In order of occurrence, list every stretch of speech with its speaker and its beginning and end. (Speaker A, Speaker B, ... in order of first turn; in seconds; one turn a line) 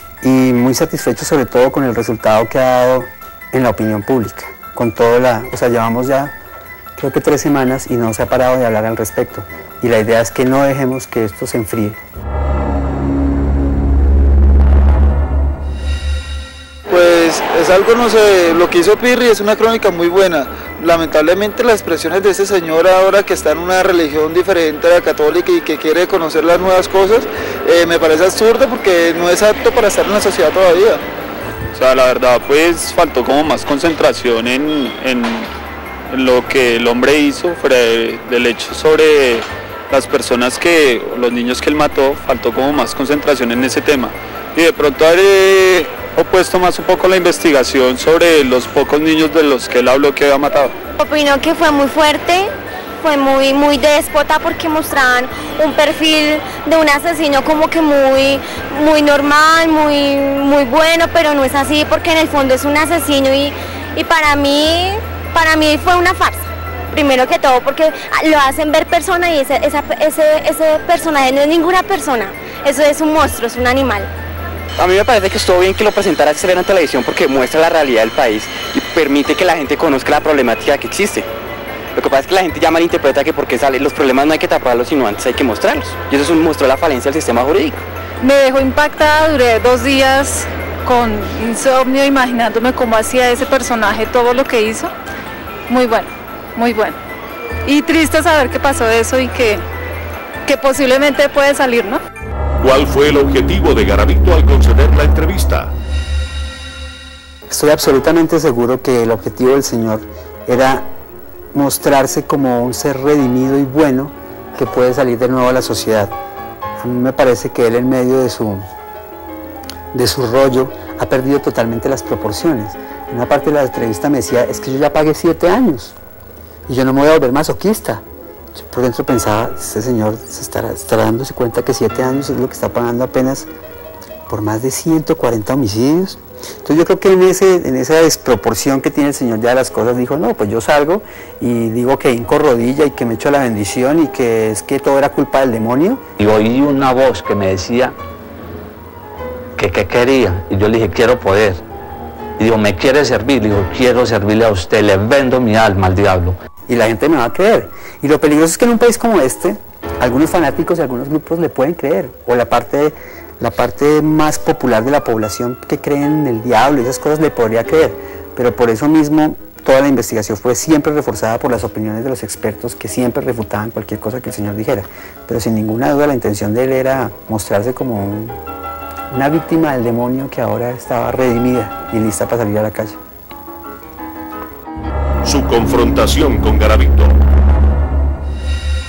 Speaker A: 0.2-6.3
Speaker A: 7.0-12.0
Speaker B: 16.9-31.0
Speaker C: 31.7-35.5
Speaker C: 36.1-50.7
Speaker D: 51.0-74.1
Speaker E: 74.8-81.3
Speaker E: 82.0-87.8
Speaker F: 88.2-94.9
Speaker F: 95.7-97.0
Speaker F: 97.7-99.6
Speaker F: 100.5-102.0
Speaker G: 102.6-105.7
Speaker A: 107.5-110.9
Speaker A: 111.5-116.1
Speaker A: 116.8-118.7
Speaker A: 119.9-126.0
Speaker A: 126.7-128.0
Speaker A: 128.5-133.5
Speaker A: 134.3-146.0
Speaker H: 146.2-147.9
Speaker H: 149.6-151.6
Speaker H: 152.4-156.4
Speaker A: 156.7-178.4
Speaker A: 179.1-183.0
Speaker G: 185.2-187.2